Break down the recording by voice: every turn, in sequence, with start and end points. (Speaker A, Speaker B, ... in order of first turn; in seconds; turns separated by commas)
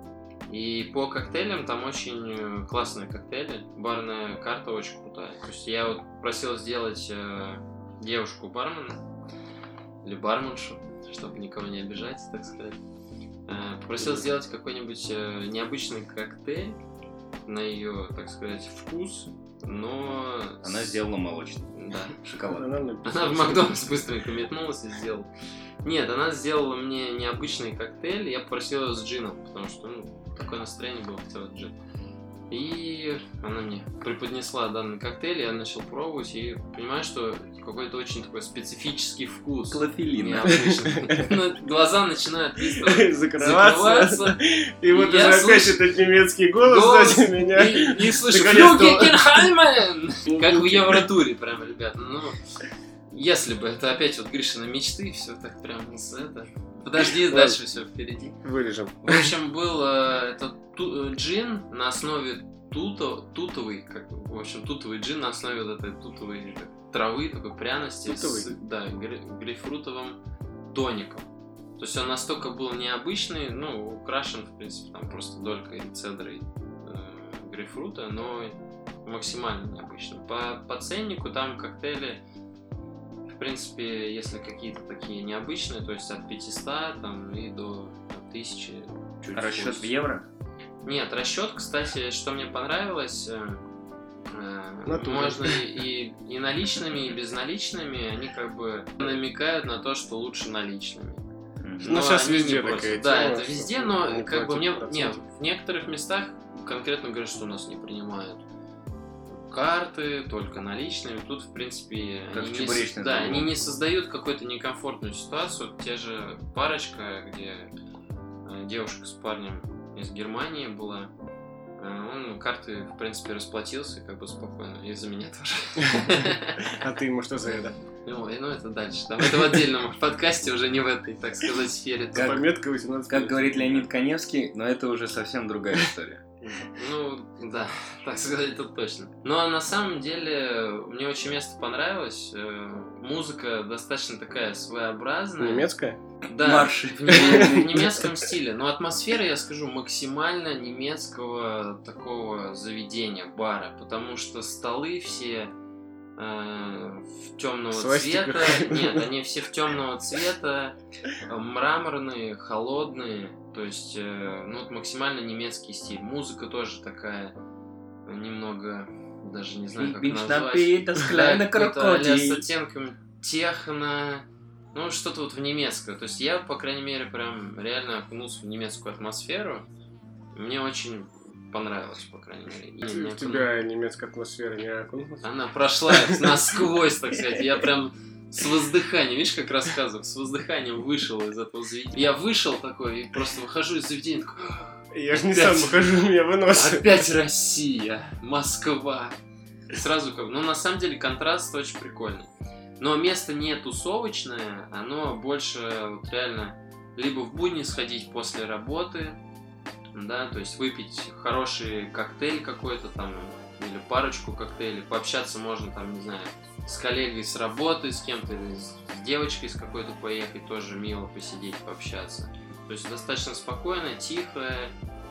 Speaker A: 0.5-9.0, Speaker A: 10.0-12.8, Speaker A: 13.5-16.8, Speaker B: 14.0-14.3, Speaker A: 17.4-21.0, Speaker C: 20.6-22.7, Speaker A: 21.7-22.2, Speaker B: 22.5-23.9, Speaker A: 23.0-25.3, Speaker A: 25.8-31.7, Speaker A: 32.5-45.8, Speaker C: 39.7-40.7, Speaker B: 40.5-41.1, Speaker B: 42.7-49.5, Speaker A: 46.6-52.4, Speaker B: 50.2-51.1, Speaker A: 53.1-58.4, Speaker B: 57.2-57.6, Speaker B: 58.4-59.4, Speaker A: 59.0-70.2, Speaker B: 68.0-68.5, Speaker A: 70.7-71.3, Speaker A: 71.8-82.2, Speaker A: 83.3-89.9, Speaker C: 89.3-90.2, Speaker A: 90.8-93.6, Speaker A: 94.3-101.2, Speaker B: 94.8-95.7, Speaker C: 101.6-101.9, Speaker A: 101.8-108.4, Speaker B: 101.8-105.3, Speaker A: 109.3-117.7, Speaker C: 112.3-113.5, Speaker A: 118.4-121.1, Speaker A: 121.8-126.7, Speaker B: 126.7-127.8, Speaker A: 128.0-132.4, Speaker C: 132.1-132.5, Speaker B: 132.2-133.9, Speaker C: 133.1-136.2, Speaker A: 136.7-145.7, Speaker B: 145.4-146.0, Speaker A: 146.2-155.5, Speaker C: 146.4-147.8, Speaker B: 147.1-148.1, Speaker A: 156.2-167.3, Speaker B: 157.7-159.1, Speaker A: 168.1-179.7, Speaker C: 169.7-172.4, Speaker A: 180.3-183.5, Speaker B: 182.8-185.3, Speaker A: 185.2-199.2, Speaker B: 185.9-186.4, Speaker B: 194.9-197.2, Speaker A: 199.7-209.2, Speaker A: 209.9-224.7